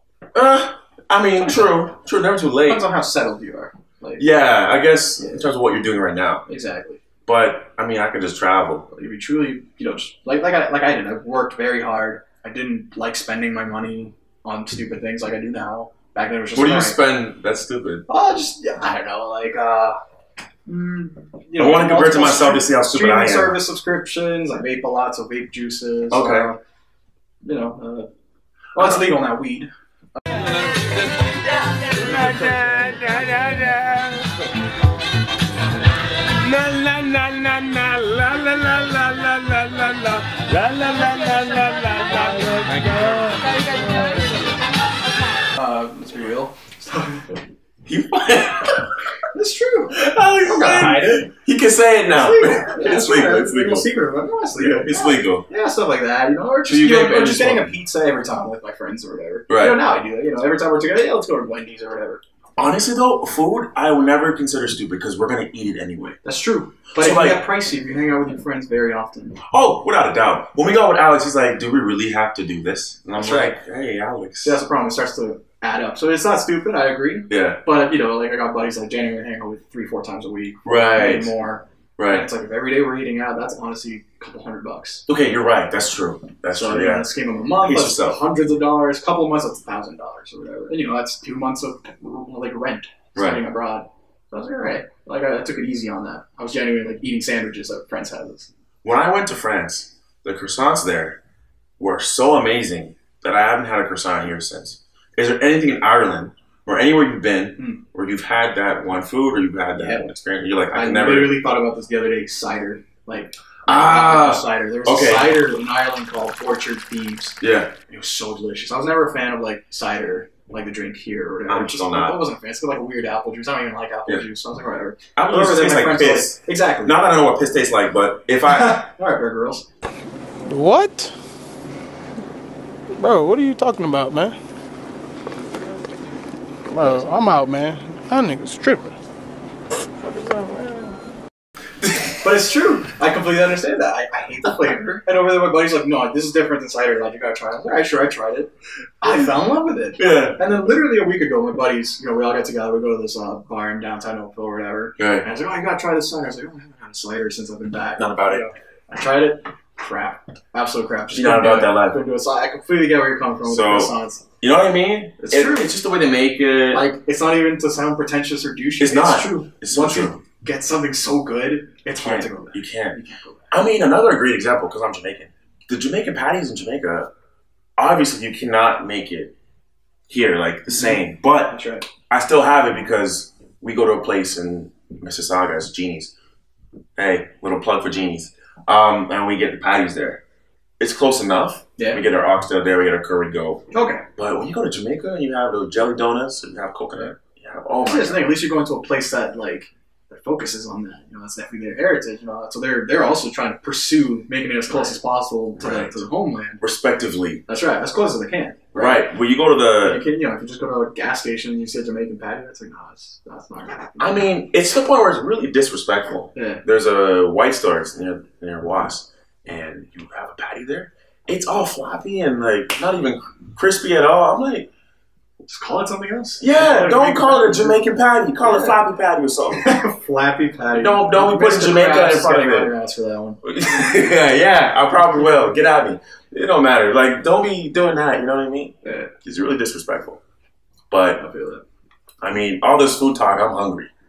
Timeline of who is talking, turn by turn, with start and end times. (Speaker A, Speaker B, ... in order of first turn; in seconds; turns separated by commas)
Speaker A: 0.3-2.9, Speaker B: 2.7-4.3, Speaker A: 4.2-6.4, Speaker B: 5.2-5.5, Speaker B: 6.5-7.0, Speaker A: 7.3-8.9, Speaker B: 8.9-17.0, Speaker A: 16.5-18.1, Speaker B: 18.1-20.0, Speaker B: 20.7-26.6, Speaker A: 21.6-23.6, Speaker A: 26.1-26.5, Speaker B: 27.4-28.1, Speaker B: 28.8-29.7, Speaker C: 31.2-34.3, Speaker A: 32.1-34.1, Speaker A: 36.5-37.2, Speaker C: 37.2-38.5, Speaker A: 38.0-40.1, Speaker C: 40.4-44.5, Speaker A: 40.9-42.9, Speaker B: 45.5-47.4, Speaker A: 47.9-49.0, Speaker B: 49.3-51.3, Speaker A: 50.0-53.9, Speaker B: 52.1-62.2, Speaker A: 54.5-55.4, Speaker A: 56.6-57.7, Speaker A: 59.5-59.8, Speaker A: 62.6-66.2, Speaker B: 66.2-69.4, Speaker A: 67.0-67.4, Speaker A: 69.5-74.6, Speaker B: 73.2-73.5, Speaker B: 74.4-85.1, Speaker A: 77.3-77.6, Speaker A: 80.7-81.3, Speaker A: 82.0-82.3, Speaker A: 85.1-87.1, Speaker B: 86.5-98.5, Speaker A: 87.6-88.2, Speaker A: 93.2-93.4, Speaker A: 98.8-101.2, Speaker A: 101.8-111.4, Speaker B: 109.8-110.1, Speaker B: 110.7-127.0, Speaker A: 113.7-115.4, Speaker A: 117.4-117.8, Speaker A: 121.5-122.2, Speaker A: 125.2-128.8, Speaker B: 128.5-129.7, Speaker D: 130.5-131.1, Speaker D: 132.9-134.4, Speaker D: 136.7-139.0, Speaker D: 140.1-141.0, Speaker B: 142.2-164.2, Speaker A: 150.0-150.4, Speaker A: 155.0-155.2, Speaker A: 158.0-158.5, Speaker A: 161.1-162.0, Speaker A: 163.4-166.9, Speaker B: 165.2-165.7, Speaker B: 166.7-173.5, Speaker A: 168.8-170.2, Speaker A: 172.0-173.0, Speaker A: 173.5-177.1, Speaker A: 177.8-179.3, Speaker A: 180.1-186.1, Speaker B: 180.7-181.9, Speaker A: 187.0-190.2, Speaker A: 190.8-198.3, Speaker B: 191.8-192.0, Speaker B: 193.7-194.0, Speaker B: 197.8-206.6, Speaker A: 204.7-205.0, Speaker A: 205.6-206.0, Speaker A: 206.6-207.4, Speaker B: 207.5-209.1, Speaker A: 208.7-210.0, Speaker B: 209.8-214.2, Speaker A: 214.0-224.7, Speaker B: 216.3-216.6, Speaker B: 225.4-228.8, Speaker A: 226.4-229.8, Speaker B: 229.5-233.4, Speaker A: 230.7-232.7, Speaker A: 233.4-240.2, Speaker B: 238.8-239.1, Speaker A: 240.9-241.2, Speaker B: 241.2-241.6, Speaker A: 242.2-243.9